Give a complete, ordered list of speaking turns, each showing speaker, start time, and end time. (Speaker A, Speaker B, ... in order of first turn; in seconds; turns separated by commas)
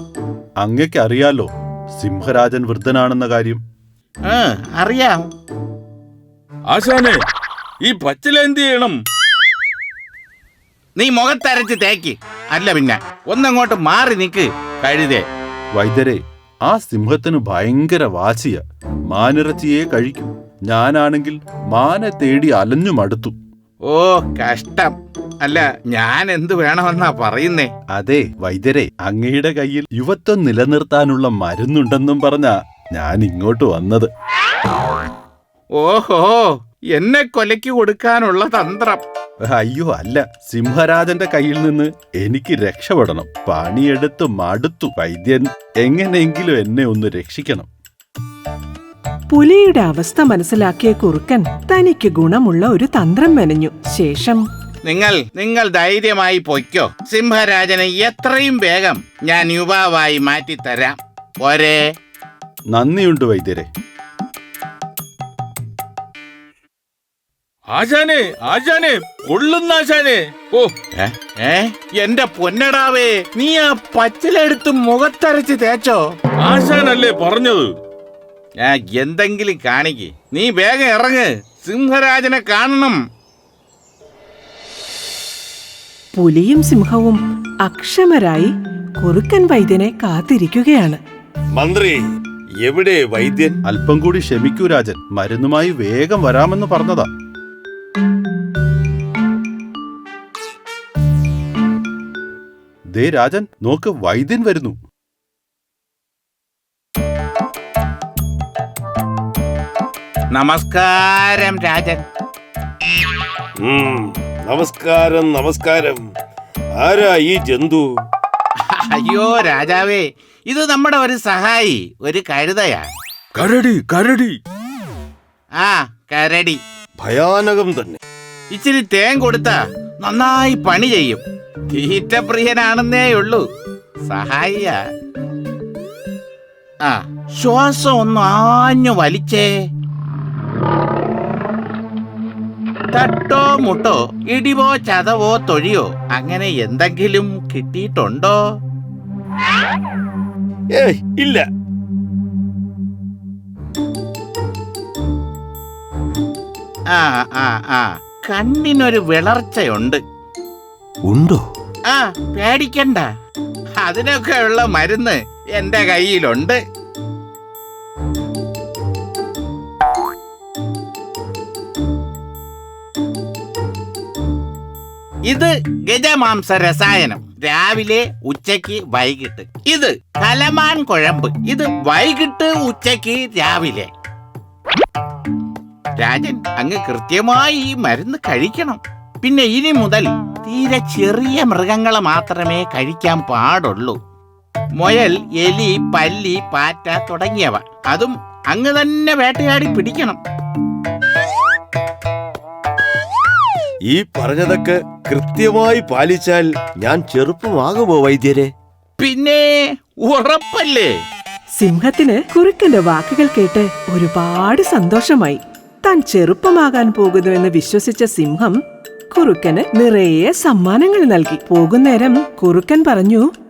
Speaker A: 0.6-3.6, Speaker B: 4.3-5.2, Speaker C: 6.7-7.2, Speaker C: 7.8-8.9, Speaker B: 11.0-15.2, Speaker A: 15.7-23.3, Speaker B: 23.9-27.7, Speaker A: 27.9-34.1, Speaker B: 35.8-39.0, Speaker A: 39.5-47.7, Speaker D: 49.3-54.4, Speaker B: 54.9-61.8, Speaker A: 62.7-63.7, Speaker C: 67.7-70.7, Speaker B: 71.0-76.0, Speaker C: 76.4-77.7, Speaker B: 78.6-83.0, Speaker D: 86.2-91.0, Speaker E: 91.5-92.0, Speaker E: 92.6-93.6, Speaker A: 93.7-97.1, Speaker A: 102.9-104.8, Speaker B: 110.3-112.0, Speaker E: 113.6-116.0, Speaker E: 116.8-117.8, Speaker B: 118.6-122.9, Speaker C: 123.3-124.3, Speaker B: 125.6-126.6, Speaker E: 127.0-128.0, Speaker B: 128.5-131.2, Speaker B: 131.7-133.4, Speaker B: 134.1-134.8, Speaker B: 136.8-139.5, Speaker B: 142.9-148.4, Speaker E: 150.8-151.4, Speaker B: 156.9-160.0, Speaker E: 161.1-161.4, Speaker B: 161.9-163.1, Speaker B: 163.8-166.6, Speaker B: 175.3-183.9, Speaker B: 186.0-194.0, Speaker B: 194.8-200.2, Speaker E: 203.9-208.5, Speaker B: 209.0-210.9, Speaker D: 211.6-218.6, Speaker D: 219.1-223.2